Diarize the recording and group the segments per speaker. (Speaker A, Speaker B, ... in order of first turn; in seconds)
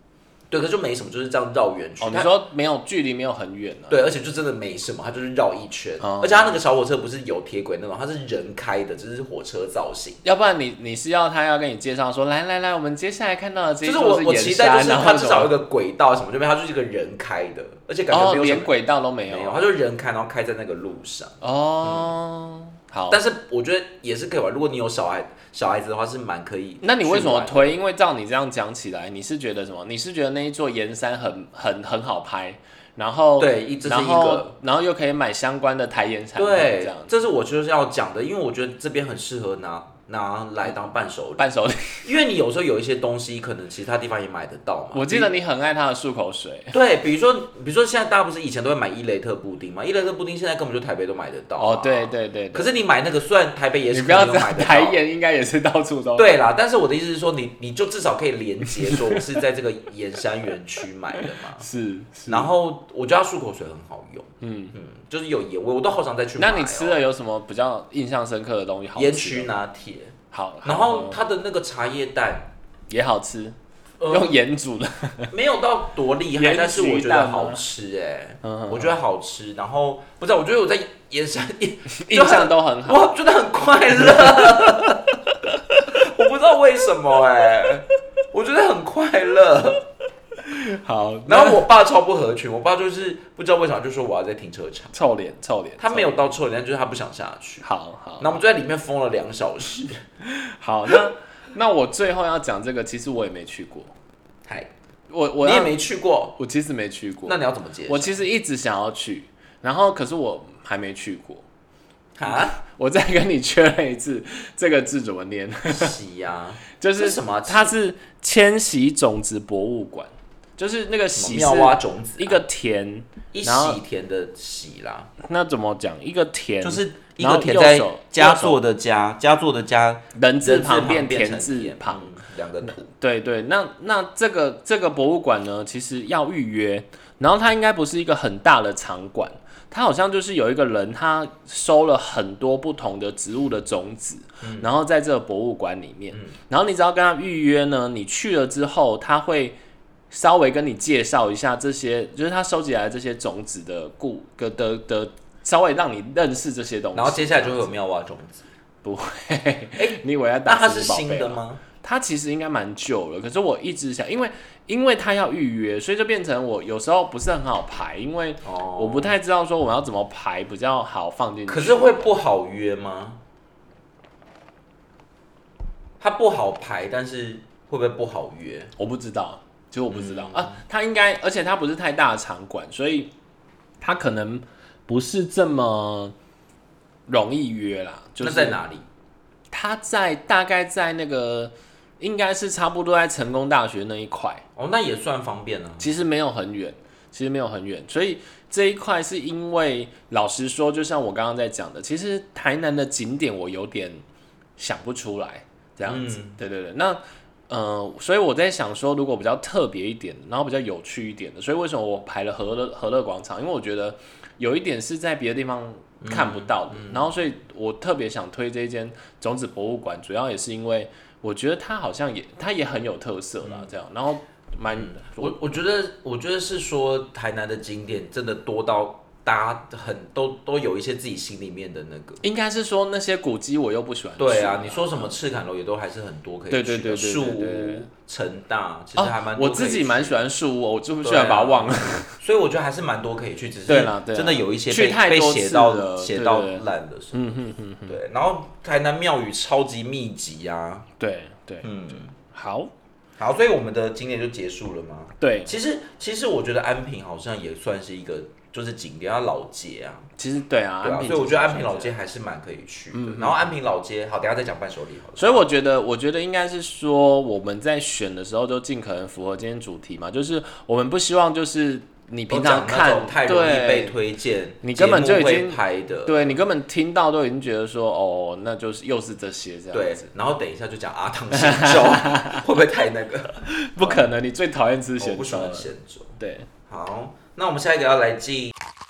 Speaker A: 0.5-2.3, 3.9-10.2, 13.8-18.7, 19.3-22.1, 23.1-27.7, 33.4-34.5, 36.4-41.5, 42.0-45.3, 46.7-55.0, 56.1-61.7, 62.3-67.0, 69.0-72.5, 74.0-74.4, 75.3-85.1, 85.9-89.8, 91.3-94.9, 95.8-97.7, 98.2-100.0, 105.4-106.4, 107.3-108.2, 112.2-112.6, 115.7-117.7, 121.2-122.4, 123.3-125.1, 126.6-132.9, 144.4-144.7, 146.1-146.4, 156.9-158.5, 159.8-161.6, 168.4-169.1, 171.5-173.2, 176.0-178.7, 179.9-180.6, 188.2-188.9, 194.6-195.9, 205.9-206.4, 216.0-217.1, 223.4-223.7, 224.7-232.2, 234.2-240.2, 241.0-247.2, 247.9-250.9, 251.6-252.1, 253.2-260.1, 260.8-265.4, 272.3-276.4, 279.7-284.1, 285.0-288.6
Speaker B: 2.0-4.0, 6.0-6.6, 10.2-15.5, 18.1-19.7, 21.4-23.2, 26.8-37.1, 41.4-42.1, 44.9-46.8, 51.6-52.8, 53.9-56.4, 58.9-59.2, 61.2-62.5, 64.4-64.7, 66.4-69.5, 70.3-71.2, 72.9-73.6, 74.1-75.3, 76.4-77.6, 78.4-78.9, 81.9-83.1, 84.0-86.0, 90.4-91.6, 94.9-96.2, 97.6-98.4, 100.2-103.9, 105.1-105.8, 106.4-111.5, 112.3-116.0, 116.8-123.8, 125.2-128.6, 130.1-132.1, 132.7-149.6, 150.1-157.7, 158.8-172.1, 178.8-183.1, 183.8-186.1, 187.1-188.6, 189.5-194.4, 195.8-204.0, 204.6-225.3, 232.2-235.1, 236.5-237.9, 239.0-242.2, 243.7-248.0, 251.0-252.7, 255.2-255.6, 260.2-261.9, 262.9-263.5, 265.2-274.0, 274.6-280.1, 281.3-282.4, 283.4-286.5